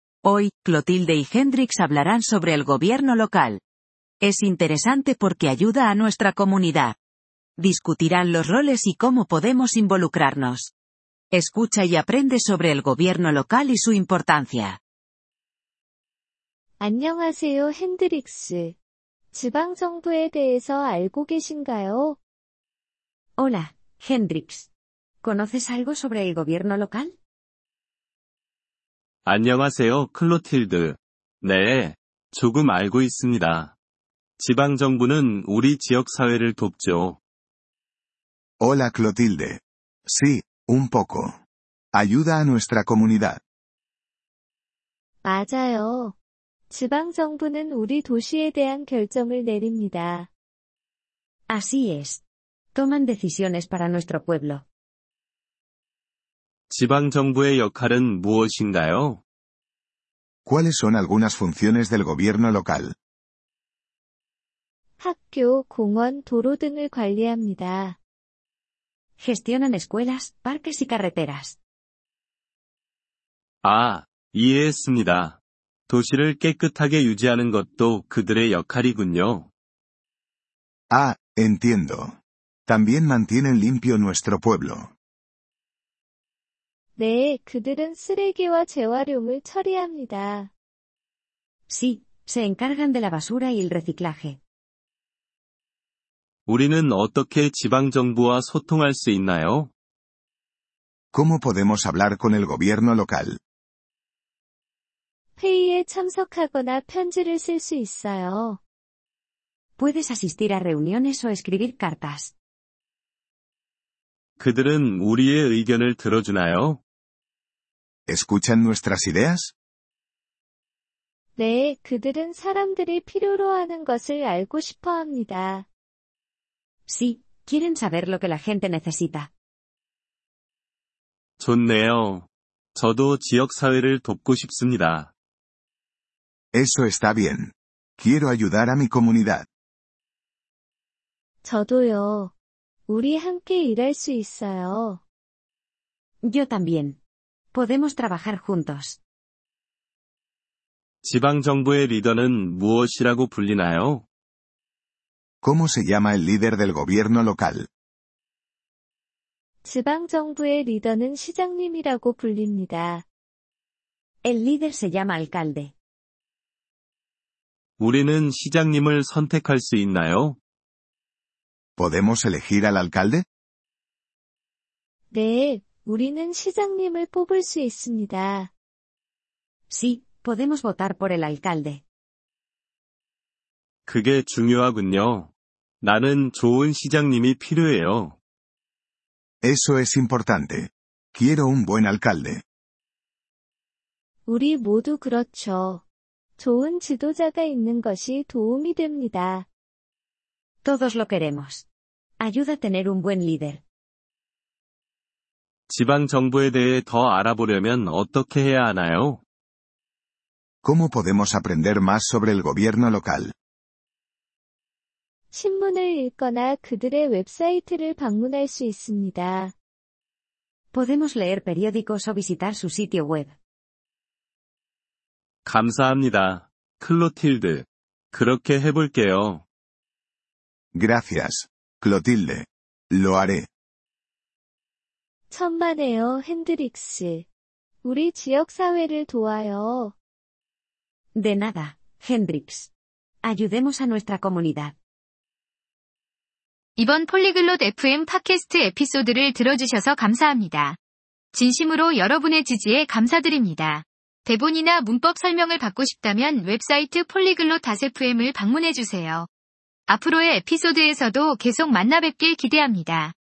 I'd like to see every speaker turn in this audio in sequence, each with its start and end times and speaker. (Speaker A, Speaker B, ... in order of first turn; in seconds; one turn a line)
Speaker A: 0.2-3.6
Speaker A: 4.2-7.0
Speaker A: 7.6-10.7
Speaker A: 11.3-14.8
Speaker B: 16.8-18.8
Speaker B: 19.3-22.2
Speaker C: 23.4-24.7
Speaker C: 25.2-27.1
Speaker D: 29.2-33.7
Speaker D: 34.4-37.2
Speaker E: 38.6-41.4
Speaker E: 41.9-43.4
Speaker B: 45.2-46.1
Speaker B: 46.7-50.3
Speaker C: 51.5-52.2
Speaker C: 52.7-54.6
Speaker D: 56.7-59.2
Speaker E: 60.5-62.9
Speaker B: 65.0-68.0
Speaker C: 69.2-71.6
Speaker D: 73.6-79.5
Speaker E: 80.9-84.9
Speaker B: 87.0-90.5
Speaker C: 91.7-94.4
Speaker D: 96.5-99.7
Speaker E: 101.1-103.4
Speaker B: 105.4-108.6
Speaker C: 109.8-112.3
Speaker D: 114.4-116.8
Speaker E: 118.1-119.5
Speaker B: 121.3-125.7
Speaker C: 126.9-129.3
Speaker D: 131.4-135.1
Speaker E: 136.5-139.5
Speaker B: 141.4-142.3
Speaker B: 142.9-145.0
Speaker C: 146.2-147.0
Speaker C: 147.5-149.0
Speaker D: 151.0-154.0
Speaker E: 155.4-157.7
Speaker B: 159.6-163.0
Speaker C: 164.2-165.7
Speaker D: 167.8-170.4
Speaker E: 171.8-173.2
Speaker B: 175.1-178.5
Speaker C: 179.7-181.8
Speaker D: 183.8-188.2
Speaker E: 189.4-192.4
Speaker B: 194.2-195.8
Speaker B: 196.4-199.5
Speaker C: 200.6-201.6
Speaker C: 202.2-203.6
Speaker D: 205.7-209.2
Speaker E: 210.6-213.3
Speaker B: 215.3-219.5
Speaker C: 220.7-223.3
Speaker D: 225.4-229.4
Speaker E: 230.7-233.5
Speaker B: 235.3-237.3
Speaker B: 237.8-239.9
Speaker C: 241.1-242.7
Speaker C: 243.2-244.7
Speaker F: 246.8-250.8
Speaker F: 251.3-259.3
Speaker F: 259.9-263.1